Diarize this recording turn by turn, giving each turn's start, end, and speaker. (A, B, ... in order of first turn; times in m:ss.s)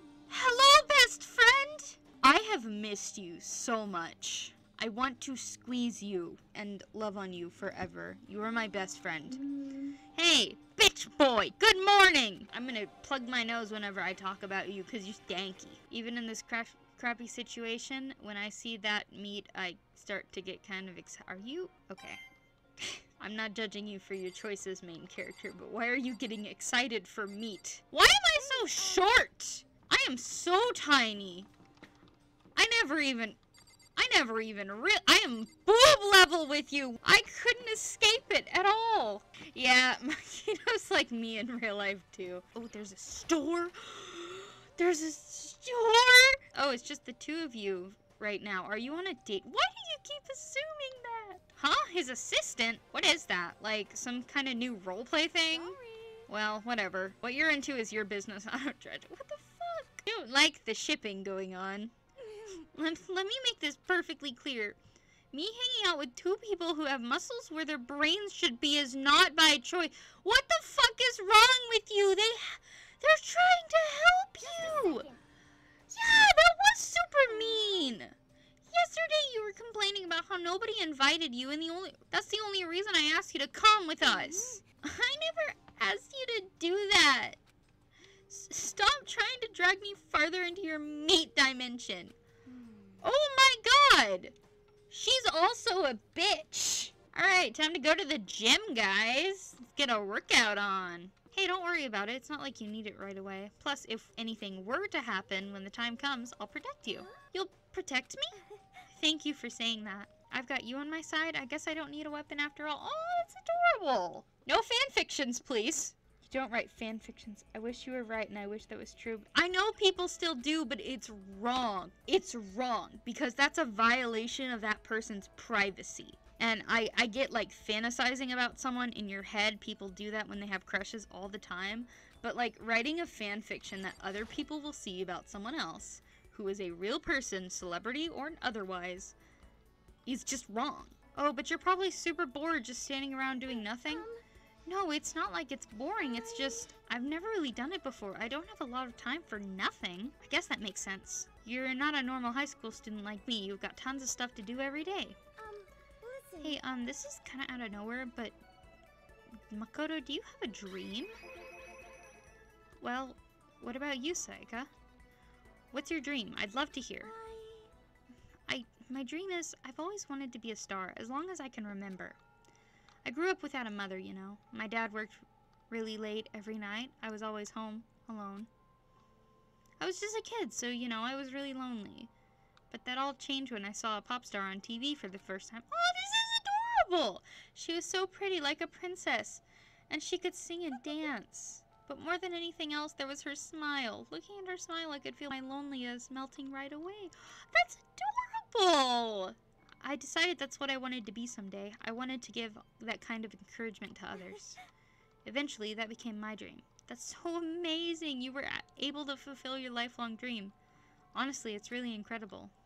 0:00.3-0:09.5 A
0:09.5-0:10.0 B
0:10.1-0:22.2 A
0:22.8-0:31.5 A
0:28.5-0:29.2 B
0:32.6-0:33.4 A
0:34.0-1:04.8 A
0:55.7-0:56.2 B
1:05.3-1:15.1 A
1:14.7-1:15.0 B
1:15.9-1:18.1 A
1:17.3-1:17.9 B
1:18.7-1:27.4 A
1:24.1-1:24.6 B
1:28.3-1:32.2 A
1:32.5-1:33.0 B
1:33.0-1:34.4 A
1:34.9-2:19.2 A
2:20.1-2:24.1 A
2:23.7-2:24.2 B
2:24.7-2:35.2 A
2:26.0-2:26.6 B
2:35.4-2:36.6 B
2:36.4-2:38.4 A
2:39.5-2:41.1 A
2:42.8-2:44.7 A
2:45.7-2:47.2 A
2:47.0-2:47.7 B
2:48.5-2:52.2 A
2:53.0-2:58.5 A
2:59.8-3:02.1 A
3:02.7-3:24.6 A
3:25.2-3:30.5 A
3:31.1-3:32.5 A